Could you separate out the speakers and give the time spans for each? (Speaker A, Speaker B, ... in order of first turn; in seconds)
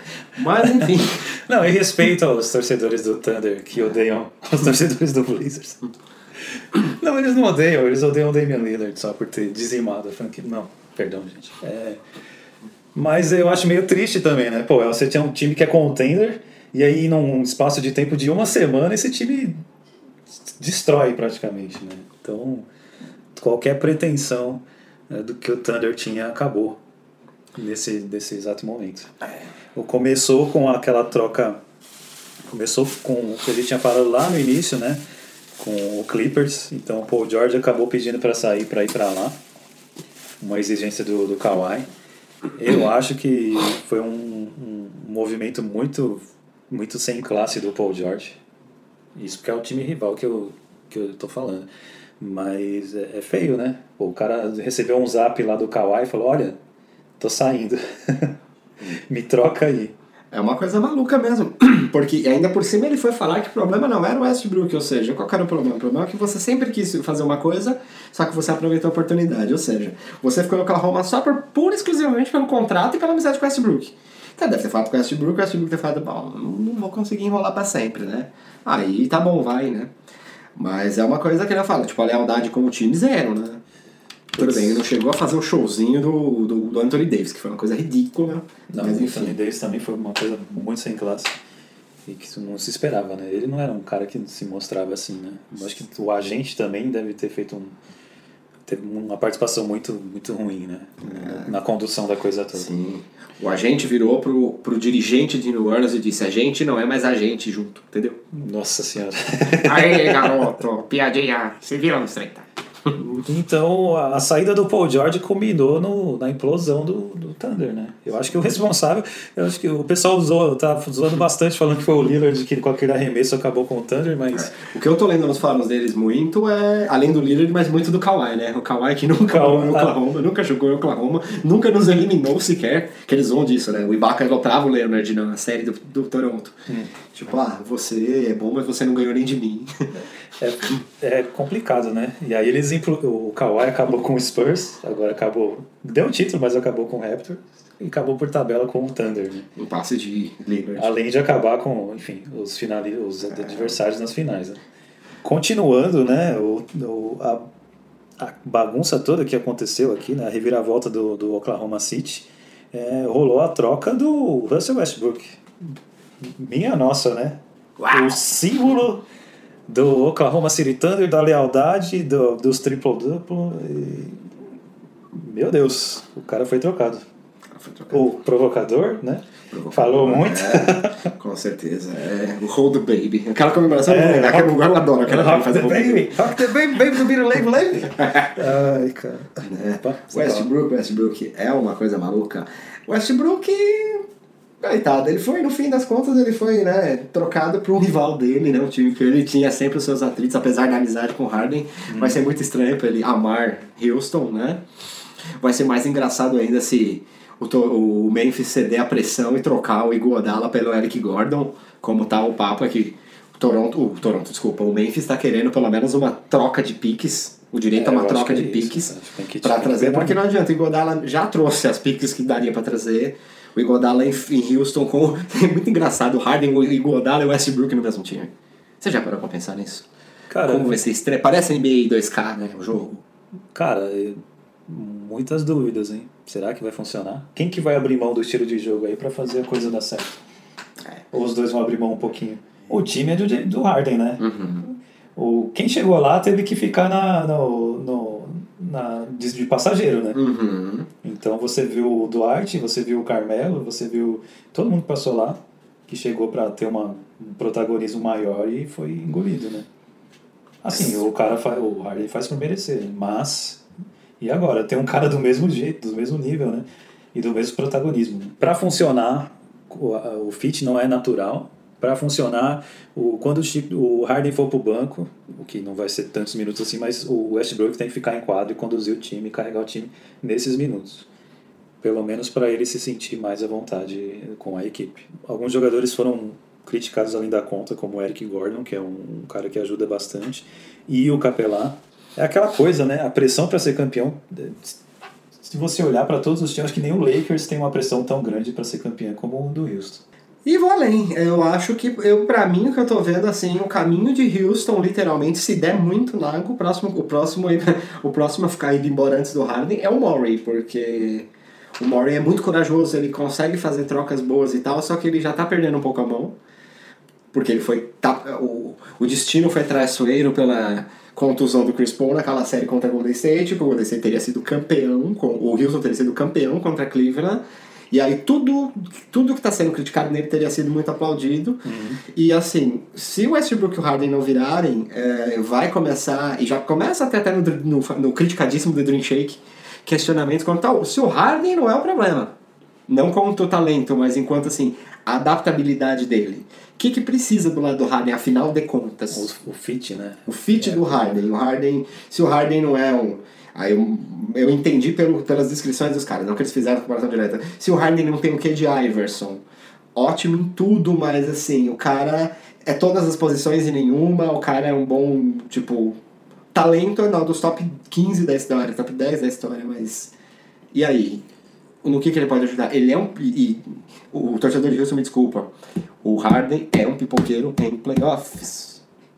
Speaker A: 0.3-1.2, 60.3-79.9, 80.5-83.6, 84.3-89.4, 101.0-101.6, 102.5-108.2, 109.6-113.0, 124.3-136.5, 137.1-139.8, 149.6-150.9, 153.3-153.7, 167.8-168.2, 177.5-178.1, 179.5-188.3, 189.4-194.1, 194.6-204.6, 205.4-229.9, 230.4-233.0, 244.2-244.7, 250.1-250.9, 260.7-261.0, 300.4-316.4, 317.3-342.3, 342.9-349.3, 350.3-359.4, 359.9-365.9, 366.5-370.1, 370.7-371.2, 371.8-375.5, 376.0-378.8
Speaker B: 0.6-5.8, 6.5-12.0, 12.9-19.5, 20.6-22.6, 23.4-26.8, 27.6-29.1, 29.8-31.6, 32.5-35.0, 35.6-39.4, 40.4-41.9, 42.5-48.4, 49.1-51.7, 52.2-56.6, 57.2-58.4, 59.1-59.9, 84.3-84.8, 88.7-91.3, 92.1-97.8, 98.7-102.7, 108.3-110.5, 113.0-124.5, 129.2-129.9, 136.7-136.9, 139.9-149.5, 150.8-154.6, 155.2-157.4, 158.2-165.4, 166.2-167.4, 167.9-169.0, 169.7-174.2, 175.1-177.0, 177.9-181.1, 183.8-190.5, 201.9-202.2, 217.7-220.2, 230.3-230.8, 233.5-240.2, 241.1-250.2, 251.0-259.6, 260.6-263.6, 264.2-281.1, 281.8-294.8, 295.4-300.0, 331.6-332.0, 349.1-351.0